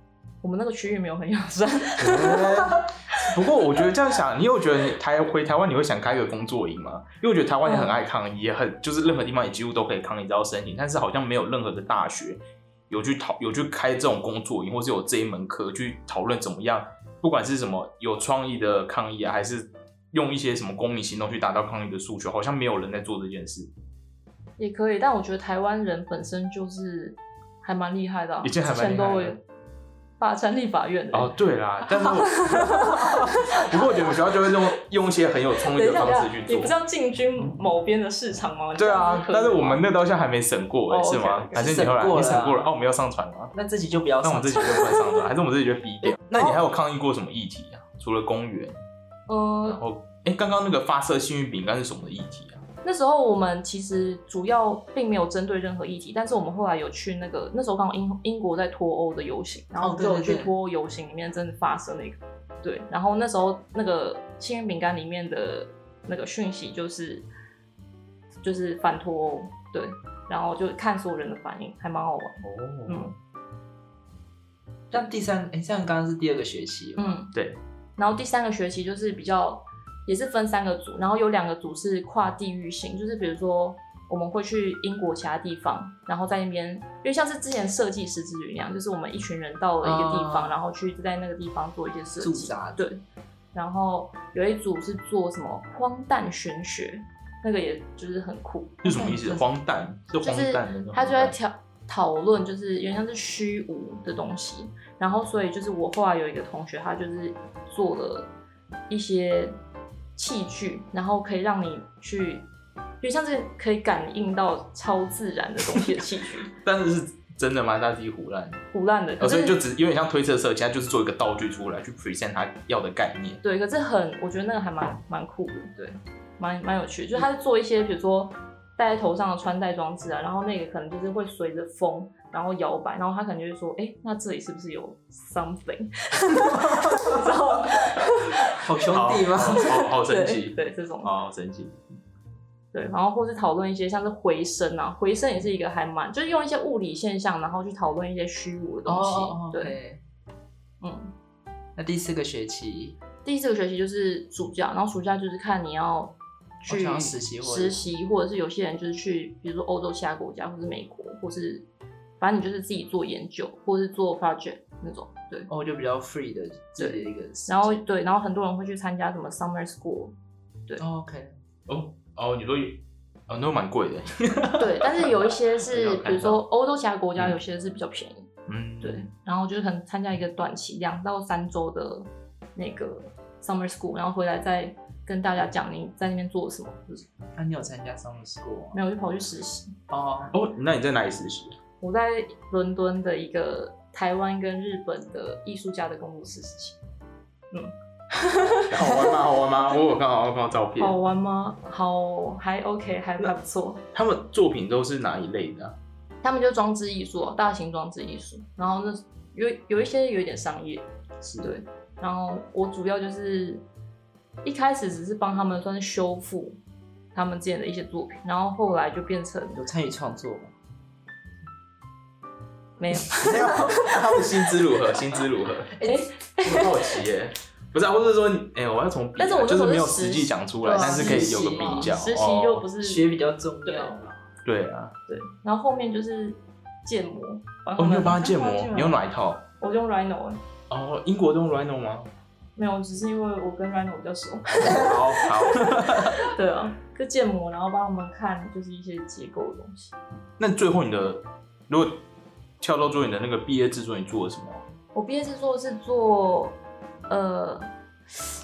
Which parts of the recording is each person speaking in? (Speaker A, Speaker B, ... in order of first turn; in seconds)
Speaker A: 0.4-3.3, 7.6-7.9, 24.6-29.4, 30.2-31.3, 31.9-34.5, 35.7-39.8, 40.9-41.8, 44.6-45.0, 46.0-46.6, 49.3-49.8, 52.8-67.3, 68.4-73.1, 77.0-77.3, 78.0-93.0, 93.5-98.9, 100.2-108.3, 108.9-109.6, 110.2-112.5, 113.0-116.5, 118.7-119.6, 123.4-138.8, 139.5-141.2, 142.7-149.8, 150.8-151.1, 153.2-161.7, 162.2-165.5, 166.8-170.1, 174.6-178.3, 178.8-187.1, 188.7-189.8, 191.8-196.8, 197.5-199.1, 200.8-203.8, 206.2-210.9, 211.4-213.6, 214.4-216.6, 217.1-219.6, 222.8-224.0, 225.8-226.9, 229.2-233.1, 233.6-234.0, 235.1-239.0, 239.6-240.4, 242.6-249.9, 254.9-256.6, 257.1-257.7
Speaker B: 2.0-23.7, 28.4-29.4, 31.1-36.7, 38.8-43.5, 44.2-48.8, 49.6-52.6, 72.4-73.1, 77.3-77.6, 98.8-101.3, 116.5-118.6, 119.2-123.4, 138.9-142.0, 171.7-176.4, 178.5-179.1, 190.3-191.6, 198.7-201.0, 203.9-205.8, 223.2-225.7, 226.4-232.6, 234.4-234.9, 237.8-239.4, 240.7-242.1, 244.6-246.2, 250.4-252.0, 252.6-254.6
Speaker C: 41.5-42.7, 43.5-45.0, 59.8-60.5, 74.9-77.2, 89.8-90.6, 92.2-92.8, 98.8-99.4, 138.5-139.8, 148.8-150.0, 151.8-153.0, 156.7-157.8, 165.5-167.8, 170.8-171.3, 187.3-188.8, 189.9-190.3, 219.6-220.5, 223.2-224.0, 225.7-226.0, 230.7-232.0, 232.8-234.1, 238.3-238.9